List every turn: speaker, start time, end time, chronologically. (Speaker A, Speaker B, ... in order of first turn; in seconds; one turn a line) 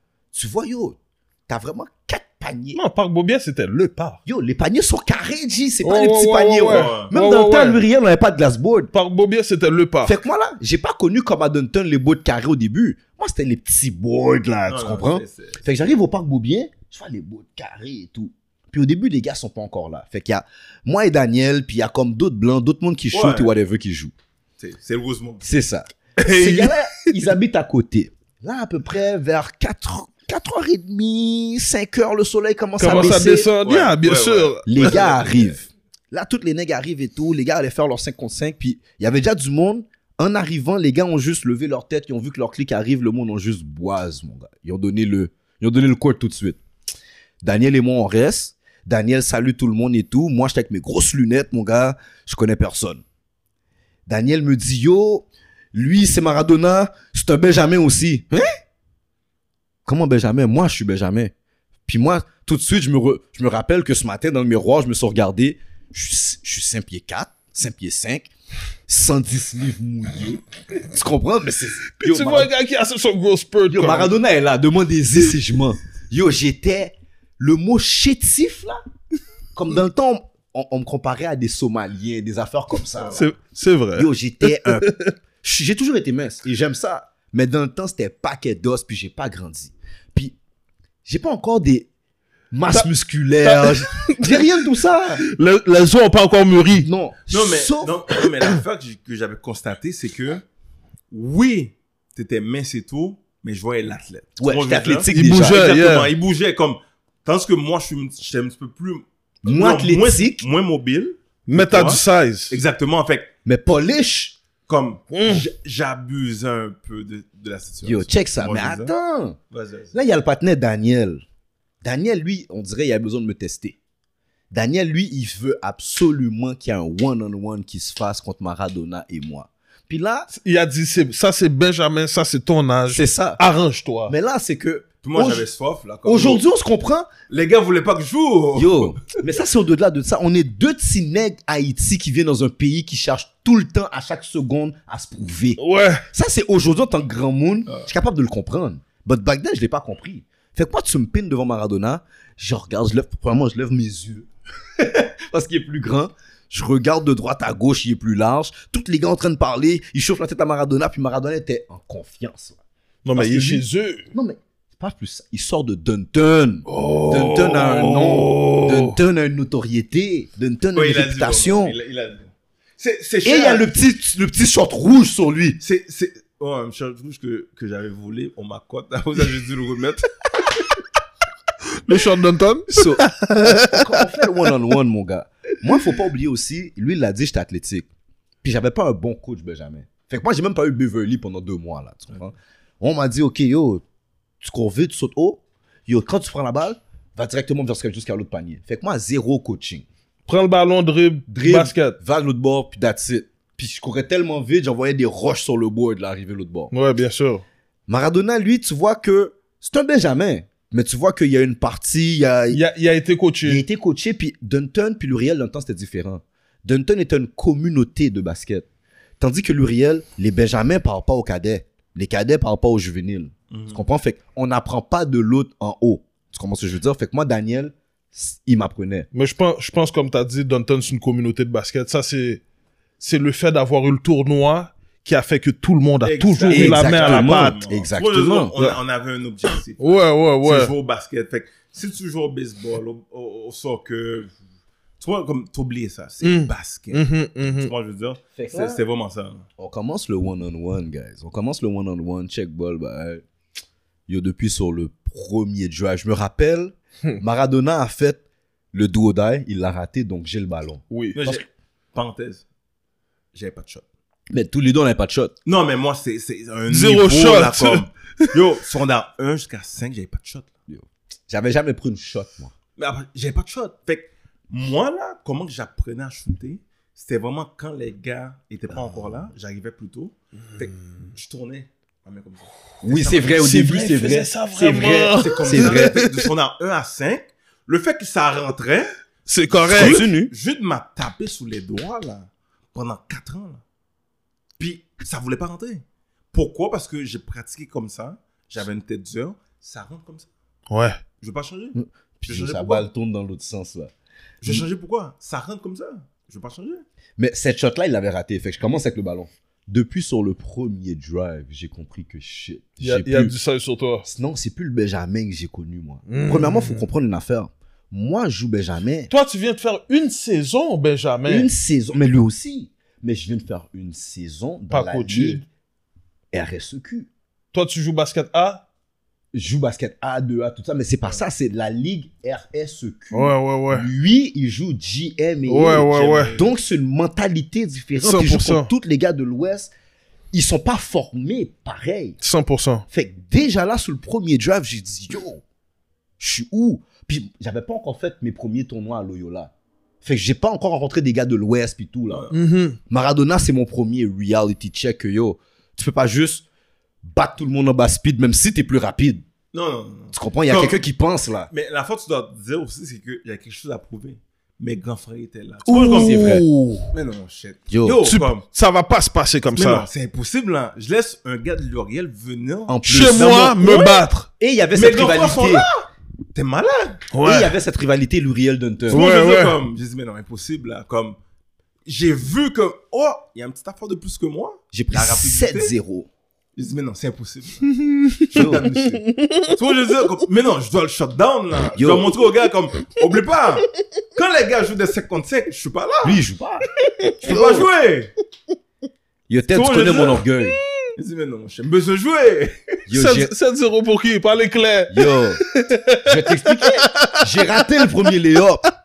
Speaker A: 0.3-2.8
Speaker B: 2.8-4.2
Speaker A: 4.3-8.9
Speaker B: 5.8-7.8
Speaker C: 6.7-7.1
Speaker B: 8.9-10.2
Speaker A: 10.0-24.1
Speaker C: 14.7-15.6
Speaker C: 23.1-23.5
Speaker C: 24.6-25.4
Speaker A: 25.4-33.5
Speaker B: 26.2-27.1
Speaker B: 32.8-35.0
Speaker C: 33.6-35.5
Speaker A: 34.7-46.6
Speaker A: 47.4-53.0
Speaker A: 54.1-58.5
Speaker A: 59.9-61.3
Speaker A: 61.9-68.3
Speaker A: 68.9-72.5
Speaker B: 72.0-74.1
Speaker A: 73.7-78.8
Speaker A: 79.5-83.2
Speaker C: 83.0-83.3
Speaker B: 83.1-85.1
Speaker A: 84.0-84.9
Speaker A: 85.4-90.4
Speaker A: 91.0-91.9
Speaker A: 92.5-95.2
Speaker B: 93.4-94.5
Speaker B: 95.2-96.9
Speaker A: 96.8-98.0
Speaker C: 97.3-100.5
Speaker C: 101.1-113.3
Speaker A: 104.4-105.6
Speaker B: 105.1-106.1
Speaker A: 109.4-110.5
Speaker B: 111.5-112.6
Speaker A: 113.5-114.4
Speaker C: 114.7-118.9
Speaker B: 115.1-115.5
Speaker A: 117.8-119.4
Speaker C: 119.5-120.0
Speaker A: 119.9-121.2
Speaker A: 121.8-123.8
Speaker A: 124.5-130.3
Speaker B: 130.3-134.1
Speaker A: 132.9-133.4
Speaker A: 134.1-135.5
Speaker C: 135.0-136.4
Speaker A: 136.1-137.1
Speaker C: 137.3-139.0
Speaker A: 138.6-145.6
Speaker B: 145.6-146.1
Speaker A: 146.1-162.6
Speaker B: 163.1-164.1
Speaker A: 163.2-171.8
Speaker B: 166.7-169.0
Speaker C: 170.7-173.7
Speaker A: 173.2-175.6
Speaker C: 175.6-180.1
Speaker B: 181.8-184.2
Speaker A: 182.7-187.9
Speaker A: 188.4-193.8
Speaker A: 194.4-199.8
Speaker B: 200.3-202.0
Speaker A: 201.3-206.7
Speaker B: 206.7-207.4
Speaker A: 207.9-212.6
Speaker B: 212.5-213.6
Speaker A: 213.4-218.7
Speaker A: 219.2-229.1
Speaker C: 223.5-223.8
Speaker B: 229.1-232.4
Speaker B: 233.0-237.6
Speaker C: 236.0-244.3
Speaker A: 236.5-238.5
Speaker B: 239.8-240.7
Speaker C: 245.0-249.5
Speaker B: 246.2-247.7
Speaker A: 248.3-248.8
Speaker A: 249.6-253.2
Speaker A: 254.1-258.2
Speaker A: 258.7-261.4
Speaker B: 260.9-261.2
Speaker C: 261.1-262.4
Speaker C: 263.3-263.9
Speaker A: 264.3-265.3
Speaker C: 265.4-270.5
Speaker B: 266.7-268.3
Speaker A: 270.7-272.5
Speaker C: 272.8-283.4
Speaker A: 282.8-286.0
Speaker B: 283.4-286.2
Speaker C: 285.1-288.9
Speaker B: 289.3-290.1
Speaker C: 289.5-293.6
Speaker A: 289.7-290.3
Speaker C: 294.6-300.3
Speaker B: 300.7-301.0
Speaker C: 301.2-302.9
Speaker A: 301.8-303.9
Speaker C: 304.4-306.8
Speaker A: 307.2-313.3
Speaker B: 312.8-314.1
Speaker A: 314.1-319.1
Speaker B: 316.1-316.9
Speaker B: 319.1-321.5
Speaker A: 321.3-325.5
Speaker B: 324.7-325.4
Speaker A: 326.3-327.1
Speaker B: 327.5-328.6
Speaker A: 329.3-339.7
Speaker B: 333.1-333.9
Speaker B: 335.5-336.4
Speaker C: 335.7-336.5
Speaker B: 338.0-338.7
Speaker A: 340.3-342.2
Speaker B: 342.2-342.9
Speaker A: 342.9-345.4
Speaker A: 346.2-352.2
Speaker C: 352.1-352.4
Speaker B: 352.3-352.8
Speaker A: 352.9-356.4
Speaker A: 357.0-359.2
Speaker C: 359.5-360.8
Speaker A: 360.1-361.5
Speaker C: 361.5-366.3
Speaker B: 365.7-366.4
Speaker A: 365.7-366.9
Speaker C: 366.9-368.4
Speaker A: 367.7-368.0
Speaker B: 368.1-369.9
Speaker C: 369.5-374.0
Speaker A: 372.7-373.4
Speaker B: 372.8-374.3
Speaker A: 374.4-375.7
Speaker C: 374.8-377.1
Speaker B: 377.1-377.6
Speaker A: 377.2-379.1
Speaker B: 378.9-379.6
Speaker C: 378.9-381.2
Speaker C: 381.9-385.7
Speaker A: 384.7-386.1
Speaker C: 386.6-387.7
Speaker B: 387.8-389.6
Speaker C: 388.3-396.2
Speaker A: 388.3-388.8
Speaker A: 391.8-392.1
Speaker A: 396.0-396.7
Speaker C: 397.0-398.1
Speaker A: 397.2-397.6
Speaker A: 399.3-400.6
Speaker C: 399.5-400.2
Speaker C: 401.0-402.8
Speaker A: 402.9-403.3
Speaker B: 402.9-407.5
Speaker A: 404.9-405.4
Speaker A: 406.0-408.7